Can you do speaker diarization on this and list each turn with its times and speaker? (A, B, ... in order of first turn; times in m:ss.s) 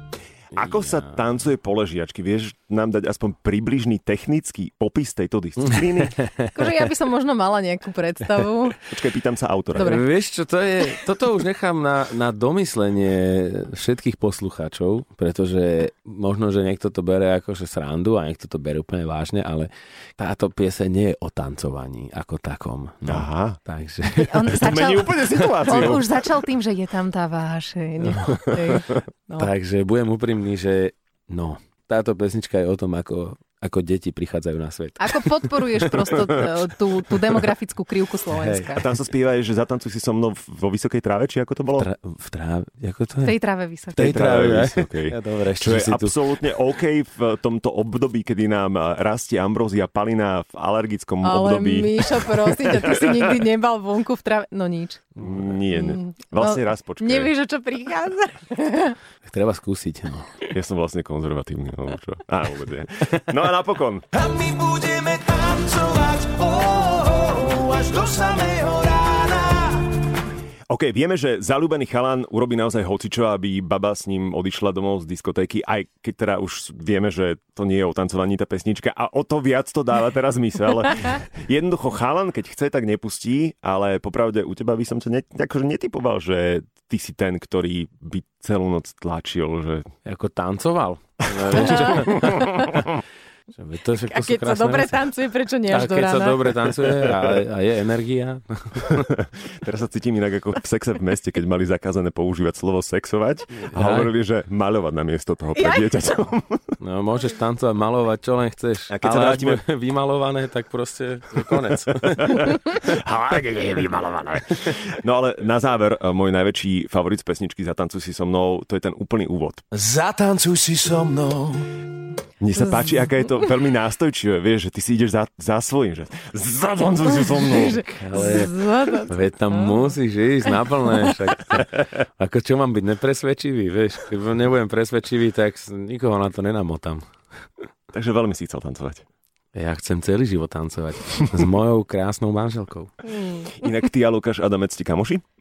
0:00.5-0:06.2 A
0:00.7-0:01.0 B
0:05.7-0:06.6 B
0:06.5-0:08.8 C
0:08.8-0:10.0 A
0:09.7-0:10.1 C
0:09.8-0:24.5 B
0:23.1-0:23.6 A
0:24.1-0:29.5 C
0:24.4-0:26.3 A
0:28.0-0:28.8 B
0:29.4-0:36.6 B
0:35.0-0:38.8 C
0:38.3-0:38.8 B
0:38.7-0:41.9 A
0:41.8-0:43.3 B
0:43.2-0:44.1 C
0:43.9-0:46.2 B
0:44.0-0:53.4 A
0:51.2-0:55.1 C
0:55.2-0:57.3 A
0:55.7-0:59.0 C
0:59.2-1:00.4 B
1:00.5-1:04.1 A
1:04.1-1:10.0 D
1:10.7-1:29.9 A
1:30.0-1:33.0 B
1:31.3-1:32.3 A
1:32.0-1:32.6 C
1:33.5-1:35.1 B
1:34.0-1:36.7 C
1:35.7-1:39.1 B
1:38.8-1:46.7 A
1:43.7-1:44.1 B
1:45.6-1:46.0 C
1:46.8-1:54.4 B
1:48.9-1:49.6 A
1:52.2-1:59.6 A
1:59.7-2:01.7 D
2:02.4-2:07.9 A
2:07.3-2:10.0 C
2:07.8-2:17.0 B
2:10.9-2:11.2 C
2:17.9-2:19.0 A
2:19.5-2:22.9 B
2:23.2-2:25.2 A